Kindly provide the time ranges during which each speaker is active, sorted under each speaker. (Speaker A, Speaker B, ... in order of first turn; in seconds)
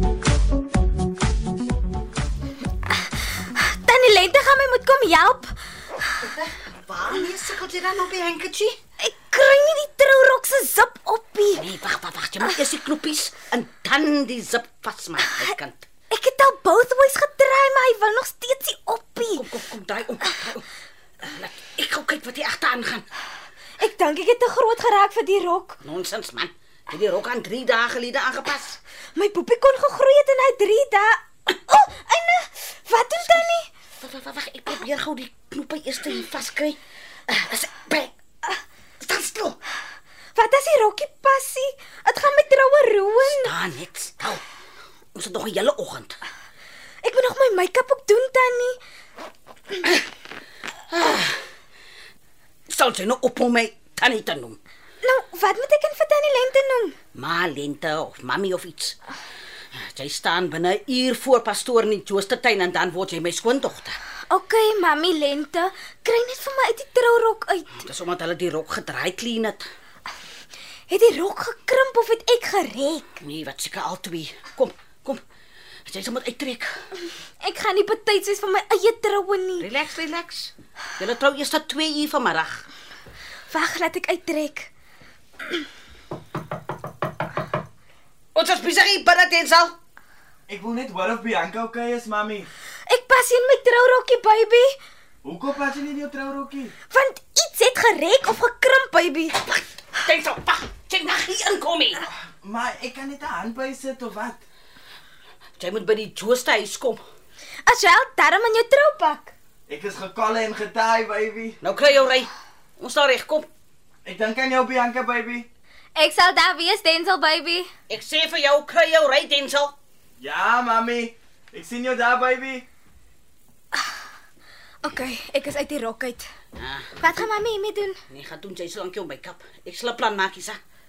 Speaker A: 3.4-5.5, 9.0-11.6, 16.1-19.4, 23.8-25.8, 29.1-33.7, 40.3-43.5, 47.0-48.8, 55.0-57.0, 64.3-67.7, 70.9-73.2, 77.4-79.7, 83.5-84.7, 92.8-94.8, 96.9-99.5, 107.6-109.3, 116.0-117.7, 124.8-126.3, 127.0-128.0
Speaker B: 6.4-8.8, 11.5-15.9, 19.2-20.6, 21.2-23.1, 25.8-28.8, 34.0-38.1, 39.0-39.6, 43.2-44.4, 45.1-46.2, 50.9-51.4, 52.7-54.6, 57.1-59.0, 59.7-64.0, 67.8-69.6, 73.2-75.2, 75.8-76.7, 79.6-82.7, 88.3-89.7, 100.0-102.0, 105.6-107.0, 111.6-113.5, 117.9-119.7, 126.6-127.1, 128.1-130.6
Speaker C: 90.5-92.5, 95.2-96.7, 102.1-104.4, 109.7-111.6, 114.0-115.5, 120.2-122.6